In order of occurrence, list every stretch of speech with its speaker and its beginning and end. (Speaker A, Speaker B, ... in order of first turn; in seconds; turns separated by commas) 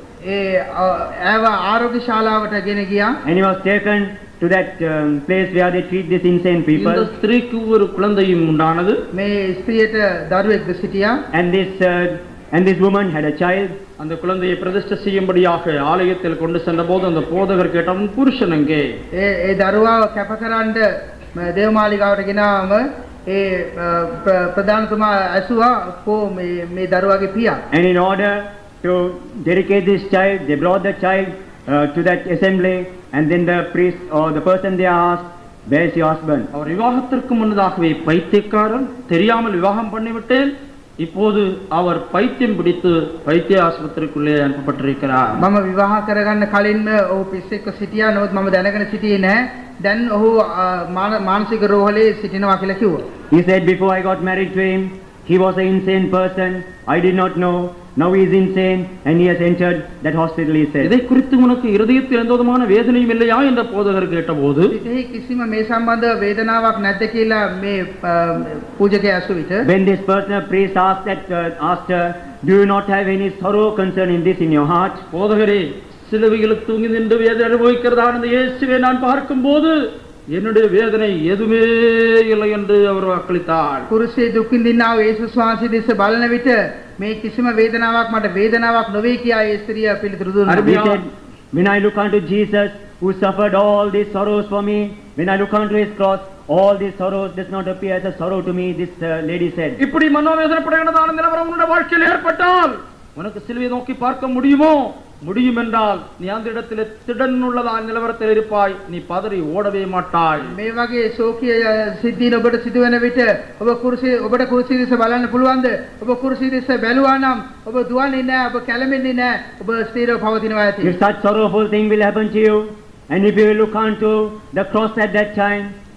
Speaker A: 0.2-3.2, Speaker B: 3.2-7.1, Speaker C: 6.8-9.0, Speaker A: 9.1-11.2, Speaker B: 11.3-13.8, Speaker C: 14.0-18.9, Speaker A: 19.1-20.8, Speaker A: 21.4-27.6, Speaker B: 27.7-36.5, Speaker C: 36.5-45.4, Speaker A: 45.4-53.0, Speaker B: 53.3-60.9, Speaker C: 60.8-64.7, Speaker A: 64.7-69.7, Speaker B: 69.6-75.0, Speaker C: 75.1-79.8, Speaker C: 80.3-83.9, Speaker A: 83.9-90.7, Speaker C: 90.5-91.0, Speaker B: 90.6-99.8, Speaker C: 99.8-110.5, Speaker A: 110.5-120.9, Speaker B: 120.8-125.7